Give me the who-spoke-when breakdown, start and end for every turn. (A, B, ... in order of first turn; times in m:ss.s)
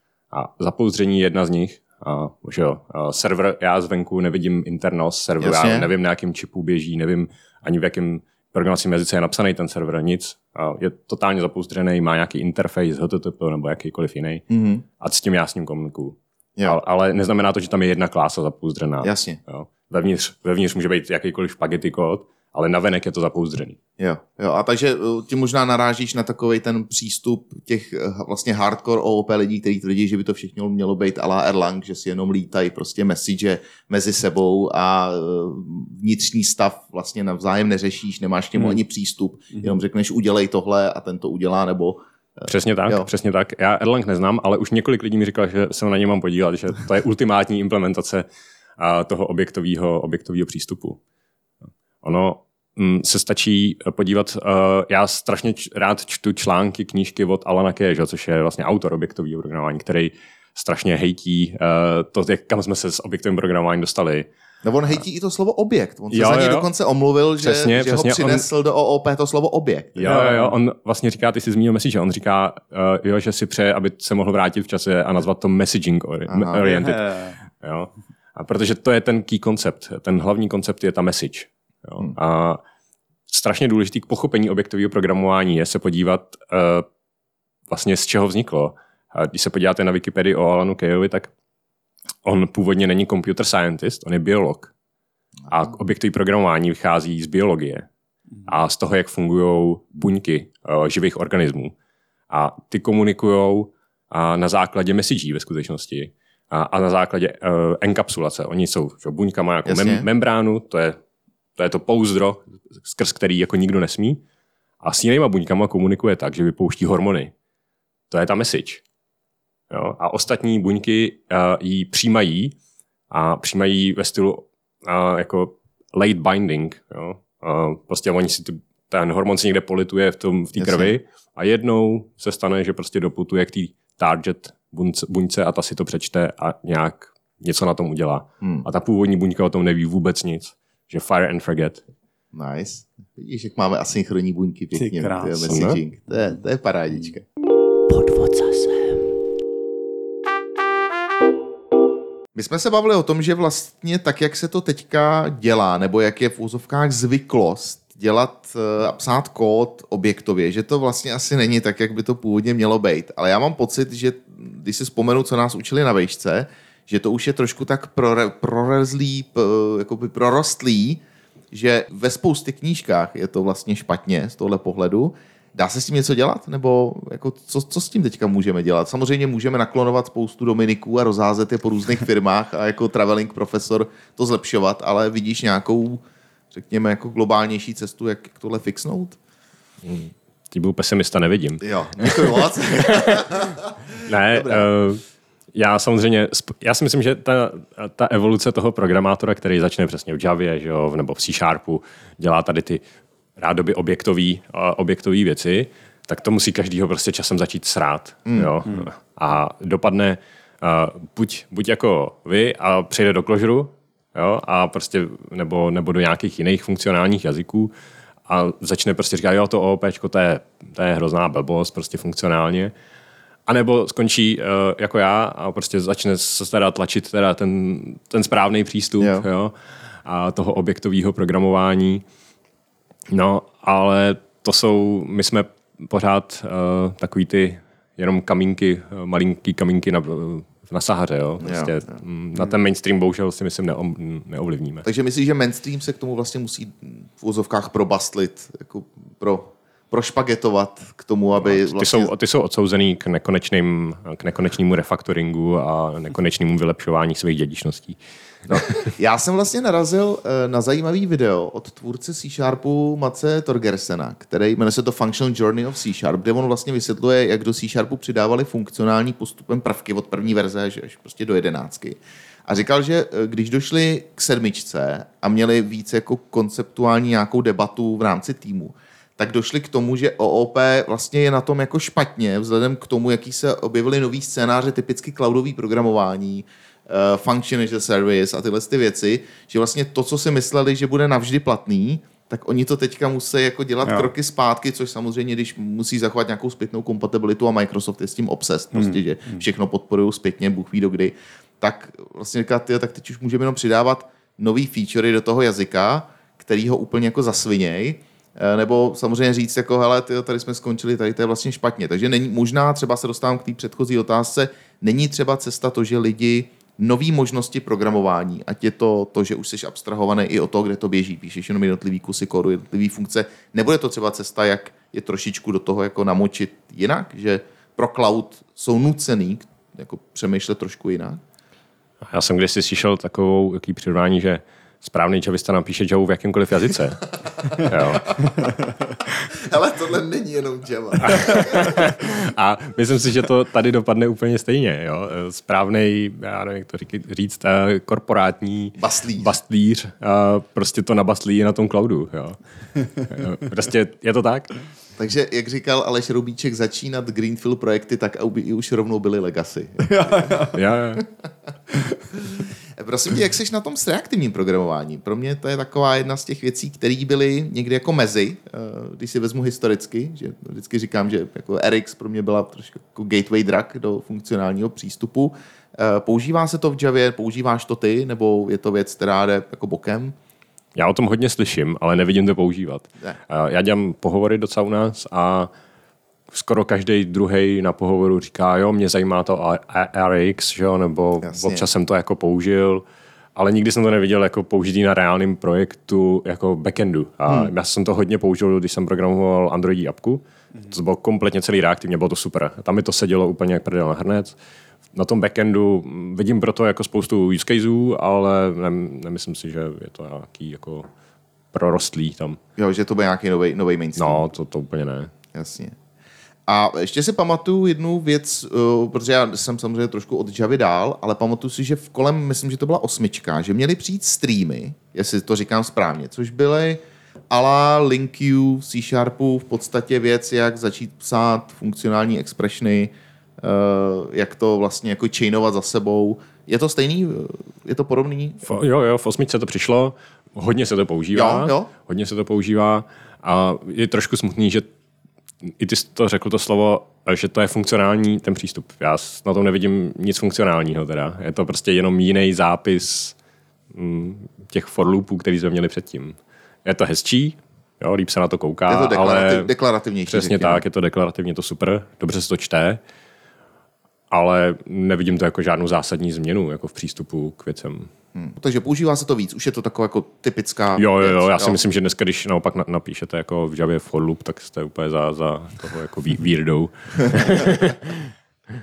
0:00.3-0:14.4 A
0:05.4-0:05.9 B
0:14.5-0:14.8 B
0:15.0-0:23.8 A
0:19.0-0:19.4 B
0:24.0-0:43.1 B
0:42.5-0:48.3 A
0:48.8-0:51.0 A
0:52.0-1:04.3 A
1:04.6-1:10.0 B
1:06.1-1:06.7 A
1:07.4-1:08.5 A
1:10.0-1:22.6 A
1:10.0-1:10.6 C
1:16.3-1:16.6 B
1:16.6-1:17.4 C
1:23.3-1:26.9 A
1:27.7-1:31.3 A
1:32.2-1:34.7 A
1:35.5-1:37.9 A
1:38.5-1:41.8 A
1:42.3-1:51.0 A
1:49.7-1:50.1 B
1:51.6-1:54.2 A
1:54.8-1:57.3 A
1:58.1-1:58.8 A
1:59.7-2:02.6 A
2:03.1-2:21.8 A
2:10.6-2:11.0 B
2:18.4-2:18.7 B
2:22.3-2:27.2 B
2:24.7-2:25.5 C
2:25.5-2:25.8 A
2:27.9-2:28.9 C
2:32.3-2:51.0 B
2:51.5-3:09.2 B
3:09.8-3:13.3 A
3:11.6-3:13.7 B
3:14.0-3:15.0 A
3:14.3-3:14.7 B
3:15.5-3:22.8 A
3:23.4-3:37.7 A
3:28.3-3:28.6 B
3:38.3-3:42.7 A
3:43.5-3:52.0 A
3:49.0-3:49.3 B
3:53.1-4:04.9 A
4:01.4-4:01.8 B
4:04.8-4:12.1 B
4:11.4-4:18.9 A
4:19.0-5:31.2 B
4:53.8-4:54.1 C
4:58.7-4:59.4 C
5:32.1-5:38.5 A
5:37.6-5:38.3 B
5:39.3-5:41.8 B
5:41.0-5:54.5 A
5:48.8-5:49.3 B
5:55.0-6:00.5 B
6:00.0-6:00.5 C
6:00.5-6:01.1 A
6:02.2-6:20.2 B
6:20.8-6:25.5 A
6:26.3-6:32.8 A
6:31.2-6:31.7 B
6:33.4-6:44.4 A
6:37.3-6:37.5 B
6:44.9-6:50.9 A
6:51.5-6:52.4 A
6:52.6-6:54.2 B
6:54.0-6:55.1 A
6:55.3-6:55.8 B
6:56.5-7:18.4 B
7:18.4-7:24.7 A
7:21.1-7:21.7 B
7:25.5-7:33.2 A
7:33.7-7:39.5 A
7:38.7-7:40.6 B
7:40.1-7:42.8 A
7:44.1-7:47.9 A
7:48.2-7:51.6 B
7:50.8-7:58.1 A